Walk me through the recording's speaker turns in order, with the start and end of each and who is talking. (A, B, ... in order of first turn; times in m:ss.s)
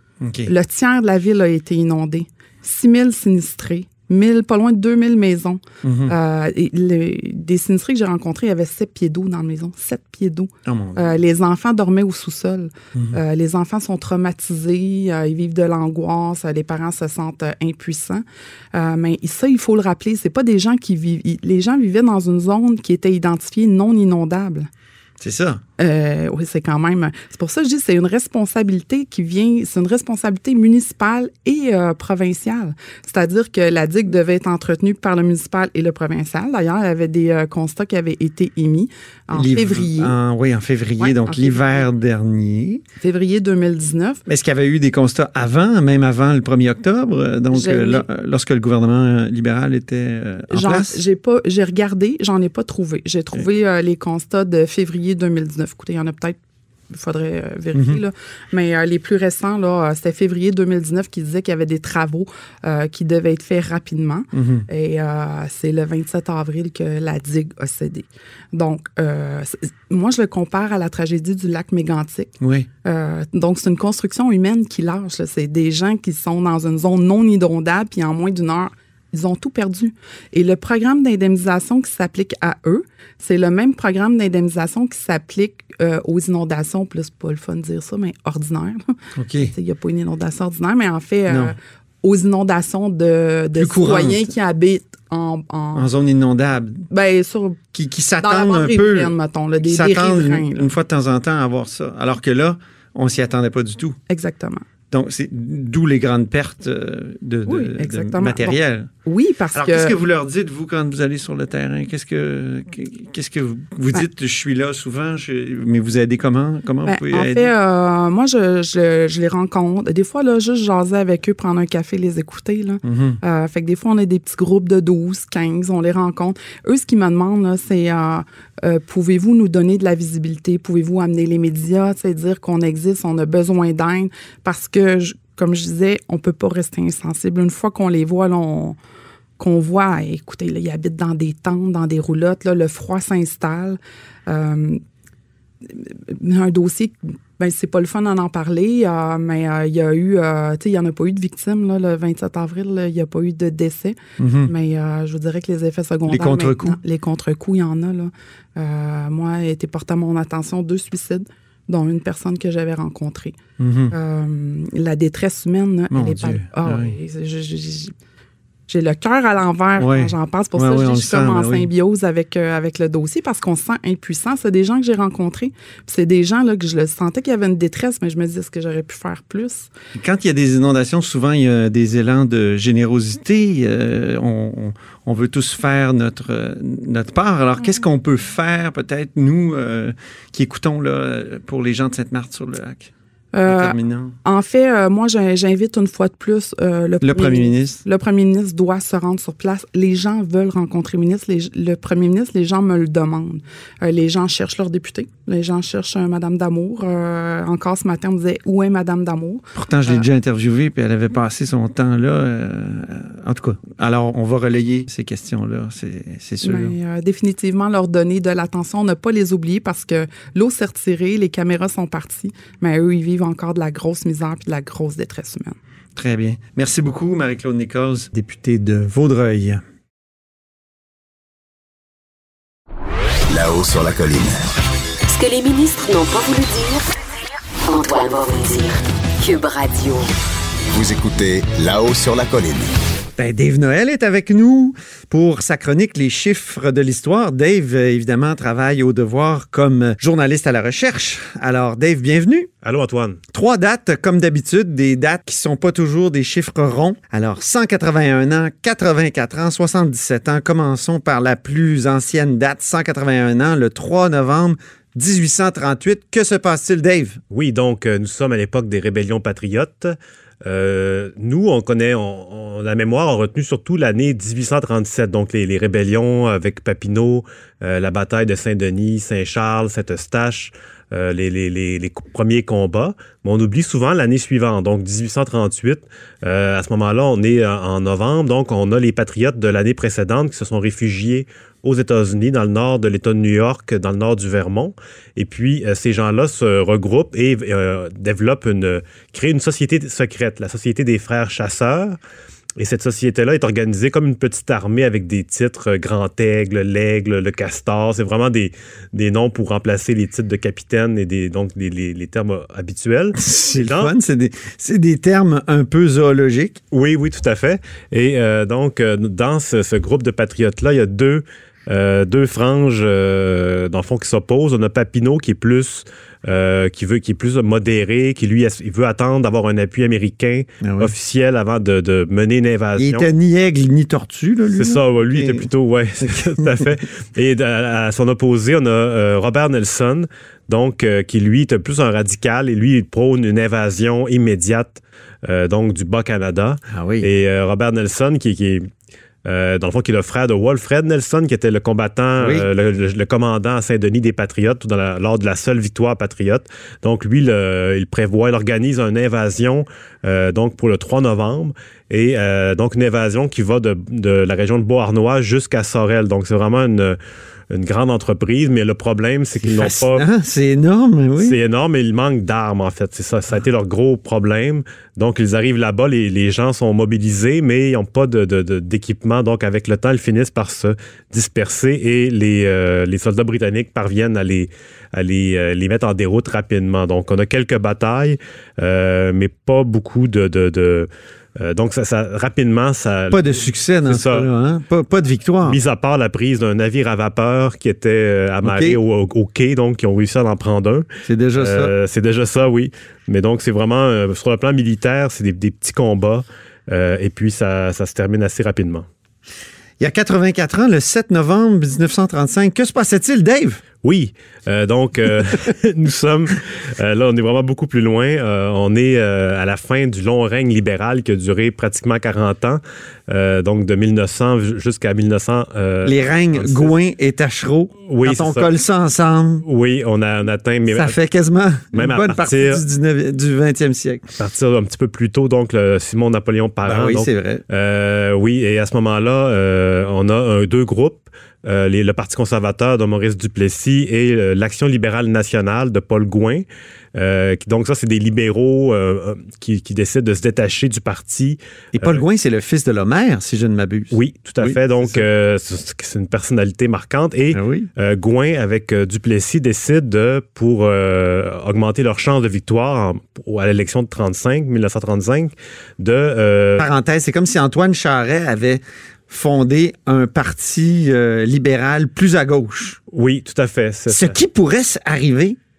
0:00.2-0:00.5 A
0:00.4-0:18.2 B
0:05.8-0:06.1 A
0:10.6-0:11.2 A
0:18.7-0:24.7 B
0:25.2-0:25.6 A
0:25.8-0:40.2 B
0:39.3-0:42.8 A
0:41.0-0:41.9 B
0:43.0-0:44.2 B
0:44.2-0:51.0 A
0:47.5-0:48.0 B
0:50.5-0:56.4 B
0:56.9-1:12.3 B
0:57.7-0:58.0 A
1:04.3-1:04.7 A
1:12.4-1:12.7 A
1:12.8-1:28.8 B
1:29.2-1:29.5 A
1:29.4-1:35.9 B
1:31.3-1:31.5 A
1:33.6-1:34.3 A
1:35.7-1:36.8 A
1:36.9-1:37.6 B
1:37.7-1:44.0 A
1:38.2-1:40.7 B
1:44.1-1:44.6 B
1:44.9-1:48.9 A
1:47.4-1:50.0 B
1:49.5-1:57.5 A
1:56.8-2:18.8 B
2:02.8-2:03.2 A
2:19.4-2:24.8 B
2:25.7-2:43.4 B
2:34.2-2:34.5 A
2:36.1-2:36.8 A
2:43.6-2:43.9 A
2:43.9-2:47.9 B
2:45.9-2:46.9 A
2:48.7-2:59.7 B
2:49.8-2:51.7 A
2:59.9-3:12.9 A
3:13.3-3:30.0 B
3:13.4-3:14.2 A
3:17.0-3:17.8 A
3:29.5-3:36.7 A
3:36.4-3:45.6 B
3:46.0-3:49.6 A
3:53.3-3:54.4 C
3:55.1-3:56.8 D
3:57.6-4:00.1 D
4:00.7-4:02.7 C
4:03.2-4:12.5 A
4:12.6-4:13.2 E
4:13.3-4:27.2 A
4:27.3-5:02.0 E
5:02.6-5:13.9 E
5:13.2-5:16.6 A
5:16.7-5:33.1 E
5:30.6-5:30.9 A
5:32.8-5:35.5 A
5:34.5-5:48.7 E
5:36.0-5:36.7 A
5:46.7-5:47.1 A
5:49.2-6:07.0 E
5:52.2-5:52.5 A
6:07.5-6:10.0 E
6:09.4-6:11.4 A
6:11.2-6:34.2 E
6:33.1-6:35.6 A
6:35.4-6:40.8 E
6:38.4-6:38.8 A
6:41.0-6:41.7 A
6:41.4-6:48.8 E
6:49.8-6:53.6 A
6:53.8-7:06.7 E
7:05.8-7:09.4 A
7:07.9-7:08.5 E
7:09.4-7:10.9 E
7:10.7-7:14.0 A
7:11.7-7:12.6 E
7:14.2-7:32.0 E
7:16.6-7:17.4 A
7:31.7-7:35.0 A
7:33.9-7:46.7 E
7:37.3-7:37.7 A
7:46.6-7:52.8 A
7:52.9-7:54.2 E
7:53.9-7:55.4 A